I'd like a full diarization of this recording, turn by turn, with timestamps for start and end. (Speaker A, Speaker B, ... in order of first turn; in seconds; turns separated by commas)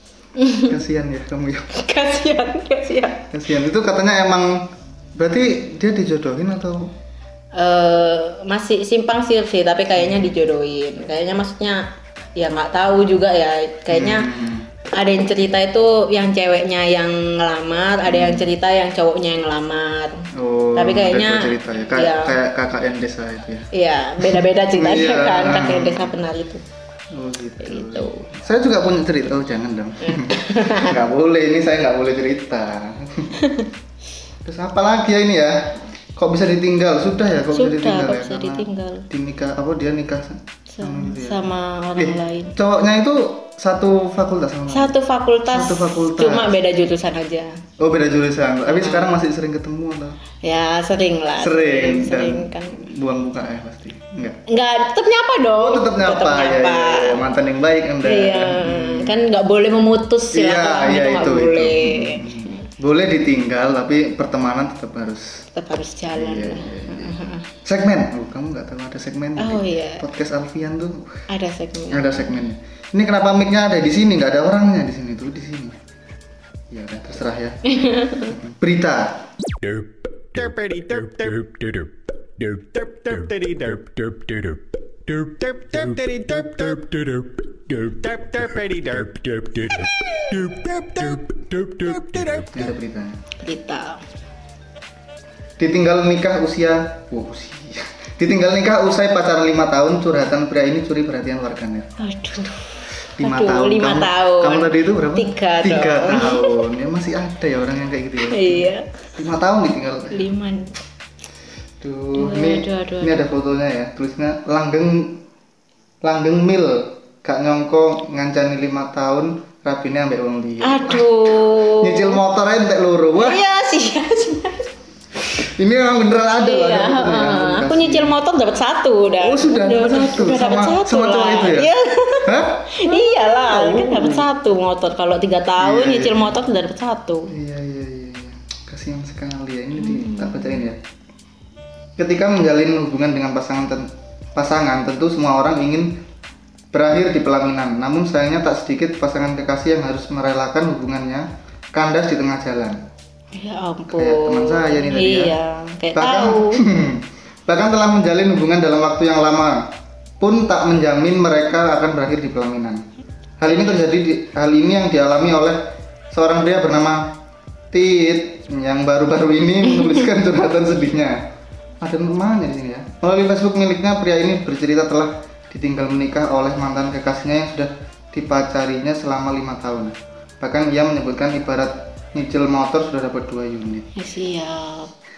Speaker A: 0.4-0.7, Speaker B: 0.7-1.7, Speaker A: 1.7-3.4, Speaker B: 3.3-6.9, Speaker A: 7.5-11.8, Speaker B: 10.0-10.3, Speaker A: 12.4-14.3, Speaker B: 13.9-14.7, Speaker A: 14.9-20.2, Speaker B: 18.0-18.5, Speaker B: 20.4-23.7, Speaker A: 20.7-22.4, Speaker A: 23.7-26.6, Speaker B: 24.2-26.1, Speaker B: 27.1-33.5, Speaker A: 27.6-28.3, Speaker A: 30.0-31.0, Speaker A: 33.4-33.7, Speaker B: 34.4-41.5, Speaker A: 37.5-39.0, Speaker A: 40.7-42.5, Speaker B: 42.0-44.9, Speaker A: 44.7-47.5, Speaker B: 45.5-46.6, Speaker B: 47.8-50.2, Speaker A: 48.6-49.1, Speaker A: 50.4-52.8, Speaker B: 51.4-54.4, Speaker A: 54.5-57.3, Speaker B: 55.6-59.1, Speaker A: 58.0-62.4, Speaker B: 60.3-65.3, Speaker A: 65.5-67.5, Speaker B: 66.1-71.2, Speaker A: 69.4-70.0, Speaker A: 71.3-72.2, Speaker B: 71.9-75.7, Speaker B: 76.7-79.2, Speaker A: 77.7-78.4, Speaker C: 79.6-92.5, Speaker B: 92.5-93.2, Speaker A: 93.4-94.0, Speaker B: 95.6-101.9, Speaker A: 102.0-106.6, Speaker B: 103.2-110.2, Speaker A: 108.2-109.0, Speaker A: 110.1-110.7, Speaker B: 111.8-115.2, Speaker A: 112.1-113.2, Speaker B: 116.0-123.4, Speaker A: 120.6-122.2, Speaker A: 123.2-124.7, Speaker B: 125.2-128.2, Speaker A: 126.3-137.3, Speaker B: 129.2-134.3, Speaker B: 135.6-136.3, Speaker B: 137.3-140.8, Speaker A: 139.8-140.5, Speaker B: 142.0-145.9, Speaker B: 146.7-152.8, Speaker A: 153.3-156.6, Speaker B: 153.9-155.3, Speaker B: 155.9-159.6, Speaker B: 160.2-162.8, Speaker B: 163.4-165.6, Speaker B: 166.1-167.1, Speaker B: 167.7-171.1, Speaker B: 171.8-183.9, Speaker A: 183.9-184.9